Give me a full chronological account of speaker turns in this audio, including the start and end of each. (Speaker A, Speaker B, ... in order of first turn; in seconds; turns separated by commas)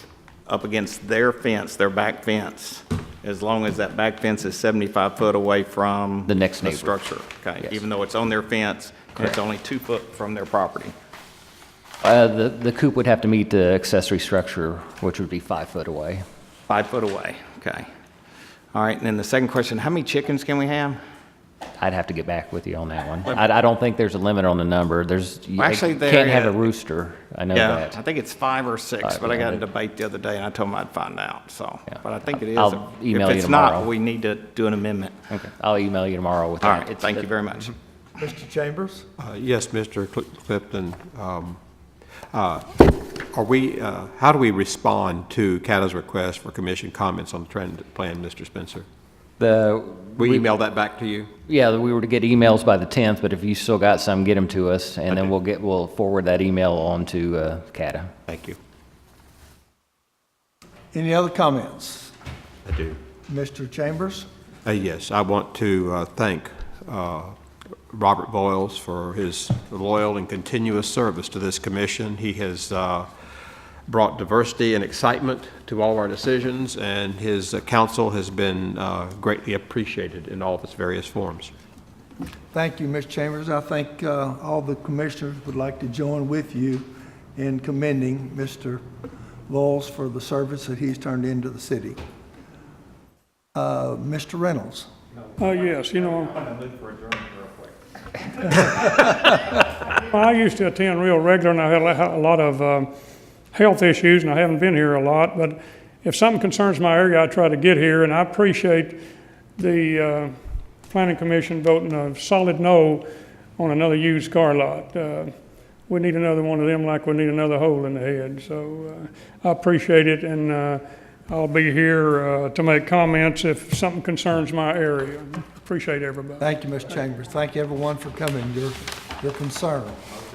Speaker A: 0.5-10.9, Speaker B: 6.2-7.0, Speaker B: 12.0-16.2, Speaker A: 16.7-17.9, Speaker A: 18.7-21.0, Speaker B: 21.8-27.9, Speaker A: 25.6-26.7, Speaker A: 27.5-35.2, Speaker B: 29.0-29.6, Speaker B: 32.5-33.9, Speaker B: 35.3-37.3, Speaker A: 36.6-37.8, Speaker C: 38.2-39.1, Speaker D: 39.2-41.6, Speaker D: 42.3-48.9, Speaker B: 49.4-50.5, Speaker D: 50.2-51.3, Speaker B: 51.5-58.1, Speaker C: 60.9-62.1, Speaker D: 62.7-63.0, Speaker C: 63.3-64.3, Speaker D: 64.7-67.4, Speaker D: 67.9-73.1, Speaker D: 73.9-81.5, Speaker C: 82.5-88.8, Speaker C: 89.5-92.0, Speaker C: 93.5-94.9, Speaker E: 95.4-96.4, Speaker A: 96.4-97.7, Speaker E: 100.0-102.9, Speaker E: 103.5-109.0, Speaker E: 109.6-113.1, Speaker E: 113.6-126.4, Speaker C: 126.4-130.0